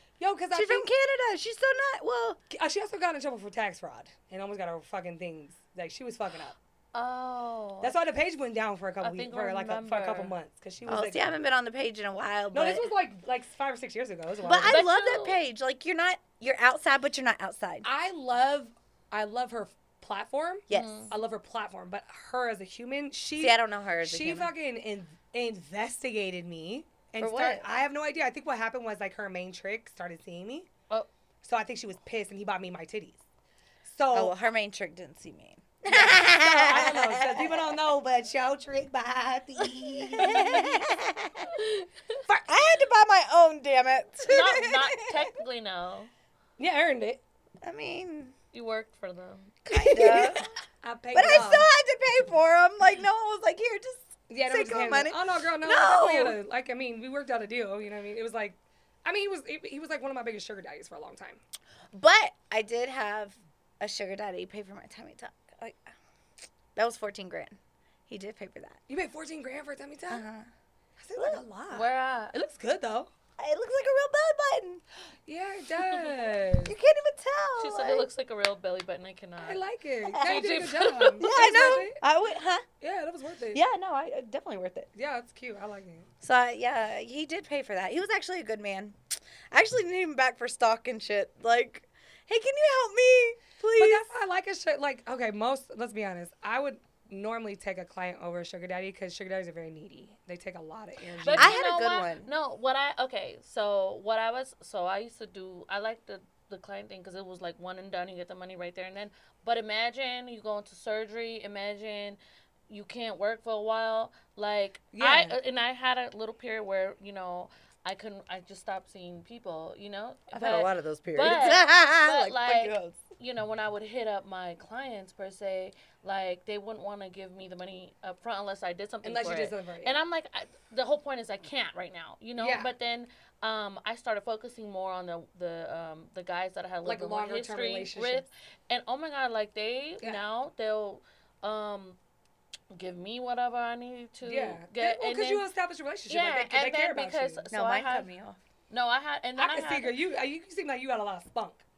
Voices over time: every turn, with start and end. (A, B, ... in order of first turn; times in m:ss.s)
0:00.2-0:00.9 A
0:00.5-0:02.4 B
0:02.5-0:06.6 A
0:06.9-0:08.0 C
0:07.8-0:11.3 A
0:09.0-0:10.3 C
0:10.9-0:12.9 B
0:12.5-0:14.8 A
0:14.4-0:17.9 B
0:14.6-0:15.4 C
0:17.8-0:30.7 A
0:20.7-0:21.1 B
0:20.7-0:21.1 C
0:23.4-0:24.5 B
0:27.2-0:27.6 B
0:31.4-0:33.2 A
0:33.8-0:34.4 A
0:34.1-0:37.8 B
0:35.9-0:40.8 A
0:39.8-0:41.5 B
0:42.4-0:45.3 B
0:44.2-0:46.1 C
0:46.6-0:47.2 A
0:47.6-0:48.3 B
0:48.5-0:50.3 C
0:49.7-0:50.5 B
0:49.7-0:51.7 A
0:51.1-0:56.4 B
0:54.3-1:01.4 A
1:01.9-1:06.0 B
1:06.8-1:08.8 B
1:08.9-1:10.2 A
1:10.1-1:10.5 B
1:11.0-1:13.1 A
1:11.7-1:12.3 C
1:13.4-1:14.8 B
1:15.3-1:16.7 A
1:16.6-1:18.1 B
1:17.6-1:19.6 C
1:19.4-1:22.0 A
1:20.1-1:20.5 B
1:20.2-1:21.8 C
1:21.2-1:22.7 B
1:22.8-1:23.6 A
1:23.5-1:24.9 B
1:25.0-1:26.1 A
1:26.2-1:29.0 B
1:29.5-1:34.0 B
1:33.8-1:41.6 A
1:41.2-2:22.0 C
1:41.3-1:42.3 B
1:54.9-1:55.4 A
2:00.3-2:03.0 B
2:09.0-2:10.0 A
2:12.4-2:12.7 A
2:16.8-2:18.2 A
2:22.7-2:25.5 C
2:24.2-2:27.4 A
2:26.1-2:28.1 C
2:27.5-2:28.4 B
2:28.7-2:30.0 C
2:29.4-2:31.6 A